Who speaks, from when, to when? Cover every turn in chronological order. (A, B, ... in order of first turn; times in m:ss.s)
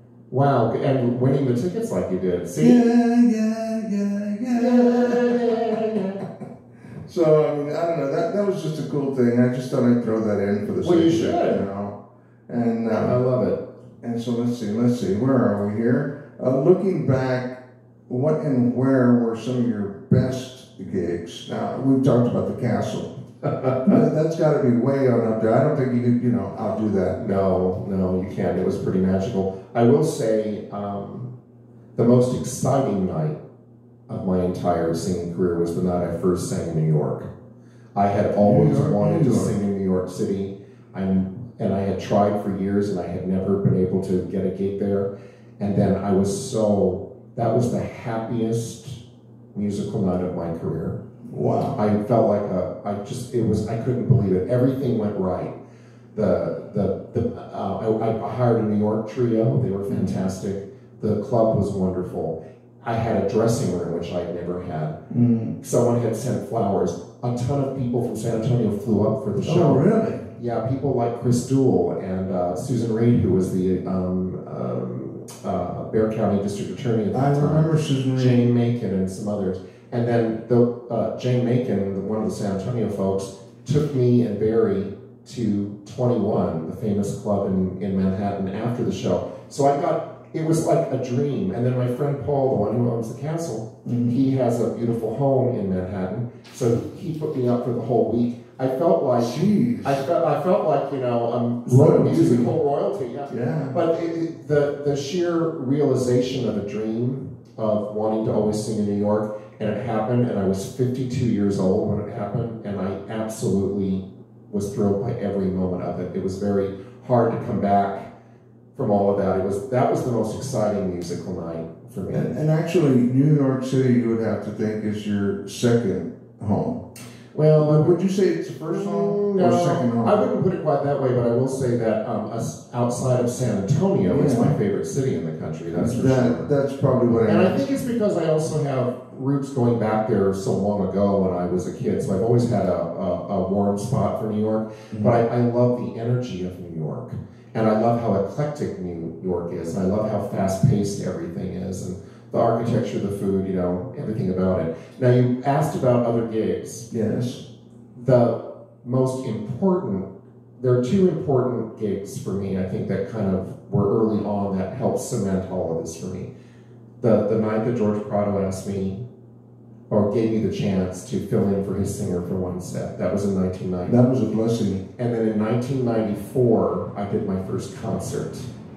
0:00.3-0:02.9 A
0:02.6-0:06.1 B
0:04.5-0:06.2 A
0:07.0-0:12.0 B
0:10.8-0:11.6 A
0:12.5-0:13.2 B
0:13.0-0:13.6 A
0:14.0-0:23.1 B
0:23.4-0:23.9 A
0:23.8-0:27.2 B
0:27.2-0:31.3 A
0:32.0-0:33.4 A
0:34.1-0:37.3 A
0:38.0-0:45.1 A
0:38.4-0:39.5 B
0:45.6-0:49.0 A
0:49.5-0:51.0 A
0:51.3-0:51.8 B
0:51.8-0:55.6 A
0:56.2-1:05.0 A
0:59.9-1:00.2 B
1:05.1-1:05.6 B
1:05.6-1:09.8 A
1:09.4-1:10.3 B
1:10.4-1:58.1 A
1:17.1-1:18.5 B
1:33.8-1:34.2 B
1:39.2-1:40.0 B
1:41.6-1:42.5 B
1:43.3-1:43.8 B
1:58.8-2:02.4 A
2:02.1-2:06.8 B
2:07.3-2:08.0 A
2:07.6-2:10.3 B
2:08.7-2:16.5 A
2:14.1-2:14.6 B
2:15.7-2:17.6 B
2:17.3-2:36.9 A
2:24.9-2:25.2 B
2:36.9-2:37.4 B
2:38.0-2:40.1 A
2:40.6-2:46.3 A
2:47.0-2:49.0 A
2:49.9-2:54.0 A
2:53.9-2:54.9 B
2:55.0-2:58.5 A